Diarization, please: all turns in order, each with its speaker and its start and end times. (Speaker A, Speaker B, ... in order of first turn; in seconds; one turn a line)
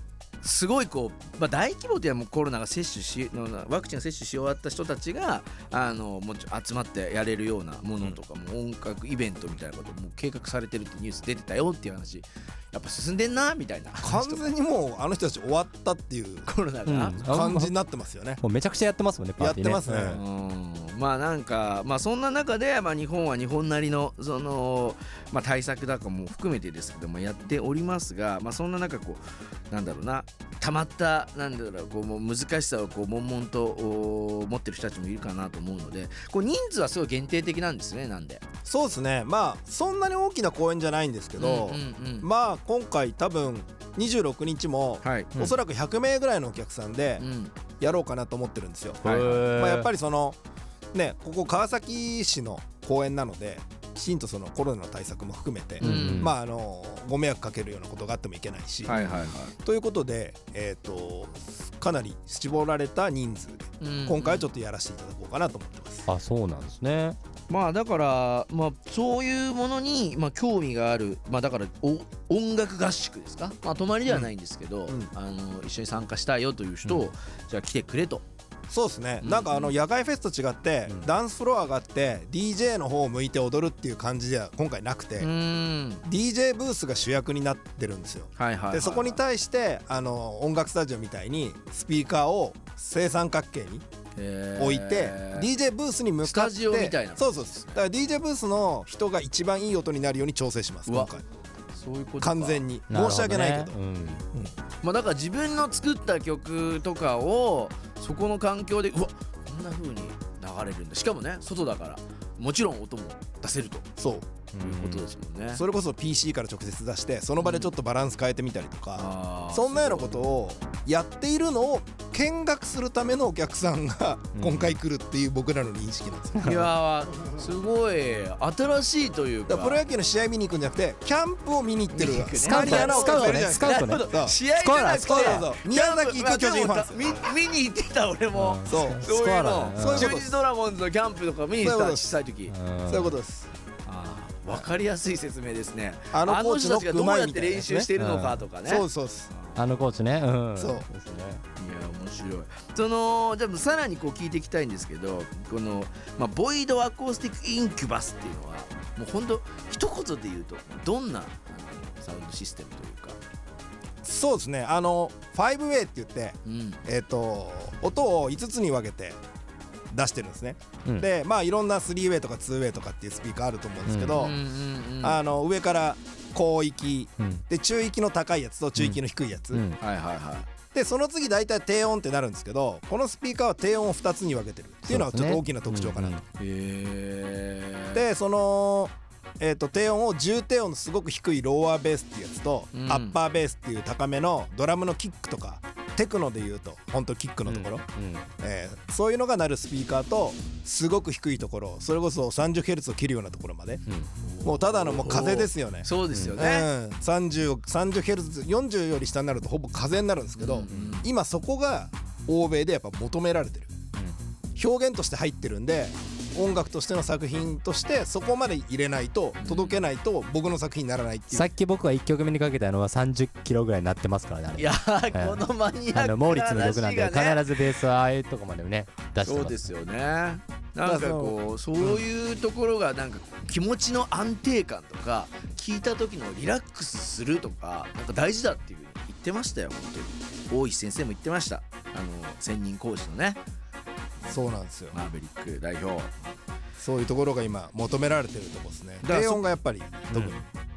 Speaker A: 0.4-14.5
Speaker B: 14.0-16.5
Speaker A: 16.5-17.2
Speaker C: 16.9-17.7
Speaker B: 17.2-18.4
Speaker C: 18.4-20.2
Speaker B: 19.4-20.2
Speaker A: 20.1-38.4
Speaker B: 38.7-47.2
Speaker A: 41.4-42.3
Speaker A: 45.0-45.3
Speaker A: 47.2-47.5
Speaker B: 47.8-50.4
Speaker A: 49.0-49.5
Speaker C: 49.0-49.9
Speaker B: 50.9-59.0
Speaker C: 55.8-56.3
Speaker A: 55.8-56.3
Speaker A: 58.9-59.5
Speaker B: 59.6-66.1
Speaker A: 63.8-64.5
Speaker C: 66.1-67.2
Speaker A: 67.5-78.2
Speaker B: 78.7-85.3
Speaker A: 79.2-79.7
Speaker A: 85.2-86.0
Speaker B: 86.1-93.8
Speaker A: 88.4-89.2
Speaker A: 94.2-95.5
Speaker B: 94.6-101.2
Speaker A: 96.2-97.8
Speaker A: 100.9-101.1
Speaker A: 101.7-102.6
Speaker B: 102.2-103.8
Speaker C: 102.9-104.2
Speaker A: 104.8-113.9
Speaker B: 114.0-114.3
Speaker C: 114.5-115.0
Speaker A: 114.6-115.6
Speaker B: 115.5-126.6
Speaker A: 117.4-117.7
Speaker A: 119.0-120.2
Speaker C: 124.3-124.8
Speaker A: 126.4-129.8
Speaker B: 129.5-134.4
Speaker A: 131.9-142.5
Speaker C: 132.1-135.4
Speaker B: 135.0-137.1
Speaker C: 138.3-140.1
Speaker B: 138.7-139.1
Speaker B: 139.8-140.4
Speaker B: 141.6-142.1
Speaker C: 142.5-143.2
Speaker B: 142.9-143.5
Speaker A: 143.9-149.6
Speaker B: 146.1-147.9
Speaker C: 148.0-148.4
Speaker B: 148.7-149.3
Speaker C: 149.6-151.4
Speaker B: 150.6-150.9
Speaker A: 151.6-163.2
Speaker B: 164.0-169.2
Speaker A: 166.4-166.8
Speaker B: 169.9-174.4
Speaker C: 173.9-174.3
Speaker A: 174.2-175.2
Speaker B: 175.0-179.6
Speaker C: 179.5-179.8
Speaker A: 179.8-180.5
Speaker B: 180.7-186.2
Speaker C: 184.9-186.2
Speaker A: 186.4-188.0
Speaker B: 187.9-197.8
Speaker A: 192.7-193.2
Speaker C: 197.5-198.2
Speaker B: 198.4-203.8
Speaker A: 204.3-206.7
Speaker B: 204.4-213.7
Speaker A: 210.4-211.1
Speaker B: 214.6-221.5
Speaker A: 219.4-219.8
Speaker C: 221.3-229.6
Speaker A: 224.6-227.7
Speaker A: 229.2-243.4
Speaker B: 230.8-232.0
Speaker B: 244.3-245.0
Speaker A: 244.9-246.1
Speaker B: 246.8-250.4
Speaker A: 249.0-249.4
Speaker A: 250.1-250.4